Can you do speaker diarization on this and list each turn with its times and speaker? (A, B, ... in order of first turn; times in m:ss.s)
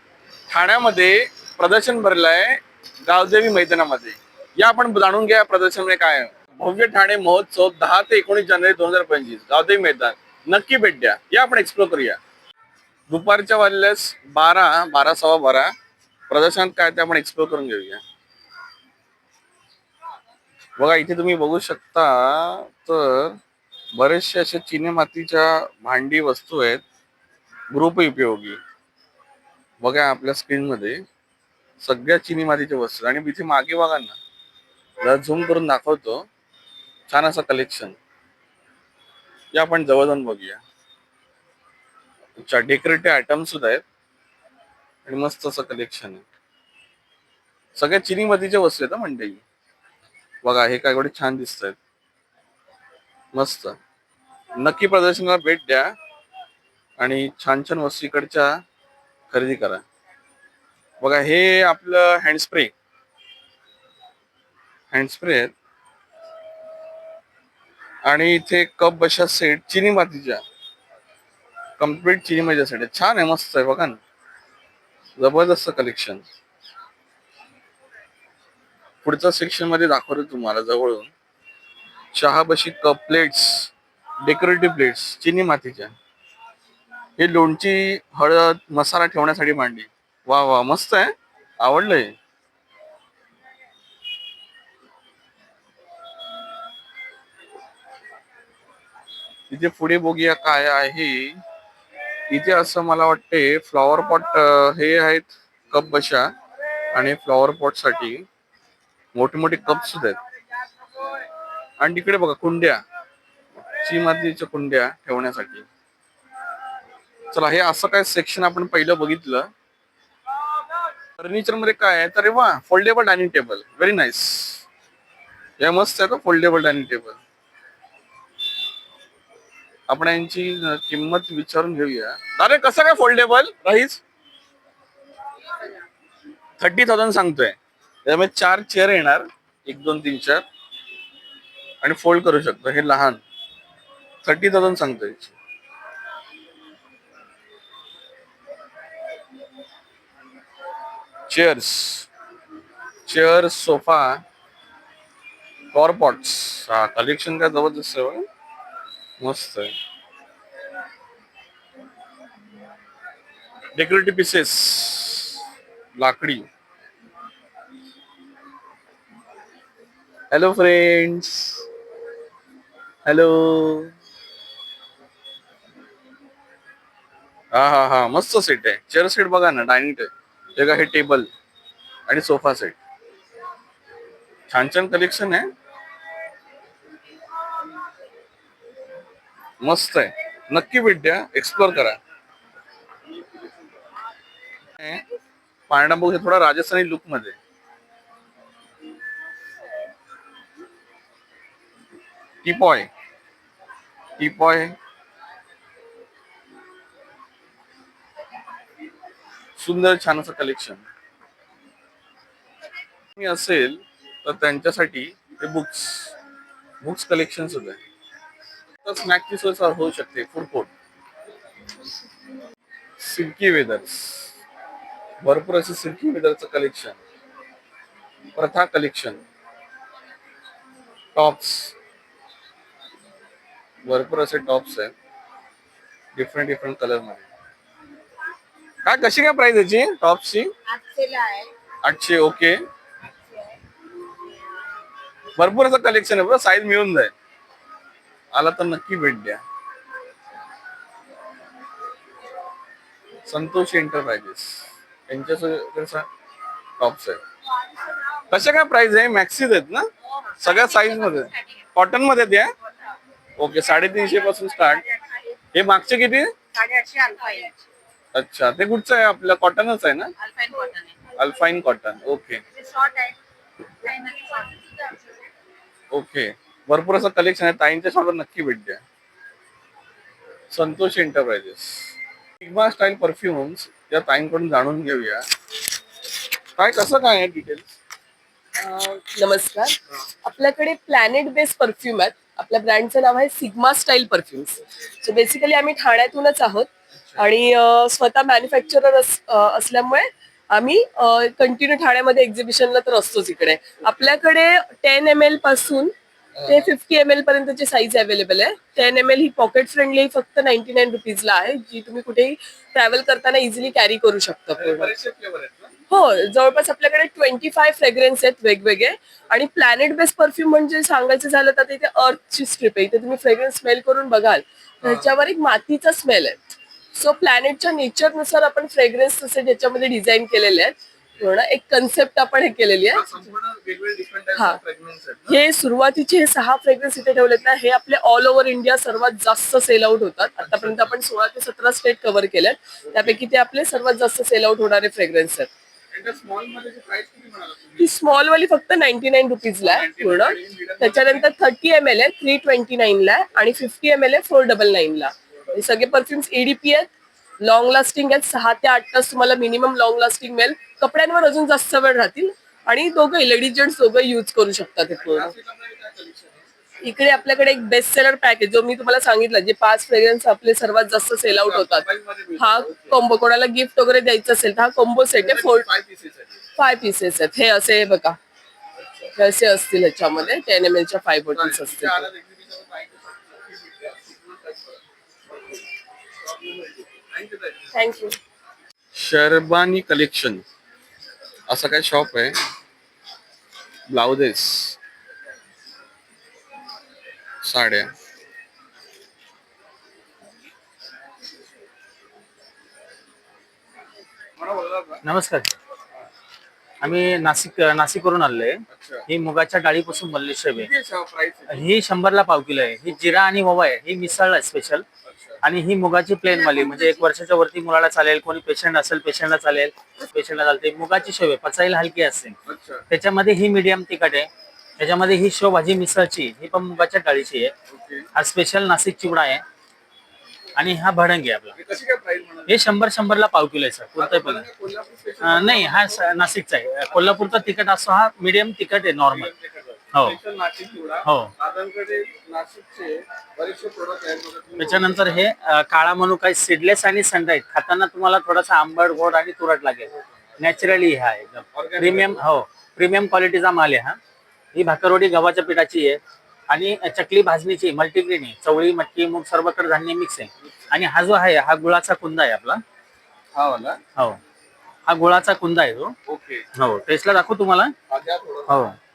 0:00.5-0:12.2 A
0:13.1-0:15.7 A
0:16.3-0:18.0 A
0:20.8-0:23.4 A
0:24.0-0:26.8 A
0:27.7-0:28.6 A
0:29.8-0:31.0 A
0:31.8-0:34.2 A
0:35.0-0:36.2 A
0:37.1-0:38.0 A
0:39.5-0:40.6 A
0:42.4-0:43.8 A
0:45.0-0:46.2 A
0:47.8-0:49.4 A
0:50.4-0:51.8 A
0:53.3-0:53.8 A
0:54.6-0:56.0 A
0:57.0-0:58.5 A
0:59.3-0:59.8 A
1:01.0-1:02.7 A
1:04.9-1:05.5 A
1:08.0-1:10.4 A
1:11.8-1:14.0 A
1:15.2-1:16.2 A
1:19.0-1:21.1 A
1:22.1-1:23.7 A
1:24.2-1:25.9 A
1:27.2-1:32.1 A
1:39.5-1:41.4 A
1:42.3-1:46.3 A
1:46.9-1:48.2 A
1:49.1-1:50.2 A
1:51.8-1:52.8 A
1:53.8-1:55.7 A
1:57.3-1:59.5 A
2:01.2-2:04.6 A
2:05.6-2:07.2 A
2:09.9-2:14.0 A
2:16.6-2:20.4 A
2:21.8-2:23.2 A
2:24.2-2:25.3 A
2:31.3-2:32.1 A
2:33.1-2:34.2 A
2:35.7-2:38.3 A
2:39.2-2:39.7 A
2:43.8-2:45.4 A
2:46.0-2:46.5 A
2:50.3-2:51.6 A
2:53.0-2:53.9 A
2:57.5-3:01.3 A
3:02.1-3:02.8 A
3:04.5-3:05.5 A
3:09.6-3:12.0 A
3:15.7-3:17.4 A
3:22.4-3:22.9 A
3:24.2-3:24.8 A
3:29.6-3:30.8 A
3:33.2-3:36.1 A
3:36.8-3:37.8 A
3:38.8-3:40.7 A
3:43.0-3:44.3 A
3:45.2-3:47.0 A
3:48.4-3:49.2 A
3:51.2-3:51.7 A
3:53.8-3:54.9 A
3:56.2-3:57.3 A
3:58.8-4:00.5 A
4:00.7-4:01.5 B
4:01.8-4:02.6 A
4:05.4-4:07.1 A
4:08.3-4:09.4 A
4:13.3-4:16.1 A
4:16.8-4:17.2 A
4:18.3-4:19.9 A
4:20.1-4:21.6 B
4:20.4-4:22.5 A
4:23.4-4:24.8 A
4:23.6-4:25.3 B
4:25.5-4:26.3 A
4:26.5-4:27.6 B
4:28.1-4:30.1 A
4:30.2-4:31.0 B
4:31.2-4:32.4 A
4:32.5-4:33.2 B
4:33.8-4:35.3 B
4:35.9-4:38.8 A
4:40.5-4:45.2 A
4:46.6-4:47.7 A
4:48.6-5:05.9 C
5:06.4-5:06.7 A
5:06.5-5:14.9 C
5:14.6-5:15.7 A
5:15.9-5:33.0 C
5:24.8-5:25.1 A
5:32.9-5:35.4 A
5:35.3-5:45.5 C
5:40.4-5:41.0 A
5:42.9-5:43.2 A
5:45.9-5:47.9 A
5:47.8-5:56.9 C
5:49.6-5:51.3 A
5:57.4-6:05.3 C
6:04.9-6:06.5 A
6:06.8-6:11.8 C
6:11.2-6:13.0 A
6:12.4-6:15.7 C
6:15.2-6:16.4 A
6:16.6-6:18.2 C
6:18.9-6:19.1 A
6:19.2-6:22.1 C
6:21.3-6:25.6 A
6:26.2-6:27.8 A
6:27.7-6:28.2 C
6:29.0-6:30.4 A
6:31.5-6:32.3 A
6:33.9-6:34.8 A
6:37.4-6:37.9 A
6:44.4-6:45.0 A
6:45.0-6:45.6 D
6:46.8-6:50.7 D
6:48.7-6:49.1 A
6:50.5-6:51.7 A
6:51.5-6:54.8 D
6:52.9-6:53.3 A
6:55.0-6:55.4 A
6:55.4-7:02.4 D
6:56.3-6:57.0 B
7:02.5-7:02.8 A
7:02.9-7:04.3 D
7:04.8-7:07.5 D
7:07.7-7:08.1 A
7:08.2-7:09.4 D
7:10.6-7:11.5 D
7:11.6-7:12.7 A
7:12.5-7:14.4 D
7:14.0-7:16.0 A
7:15.2-7:19.3 D
7:16.9-7:17.5 A
7:19.1-7:25.2 A
7:21.0-7:21.3 D
7:24.6-7:34.0 D
7:29.9-7:30.8 A
7:31.5-7:32.2 A
7:34.5-7:42.6 D
7:43.3-7:43.8 A
7:44.9-7:45.9 D
7:46.1-7:46.4 A
7:46.6-7:47.7 D
7:47.9-7:48.6 A
7:48.5-7:48.8 D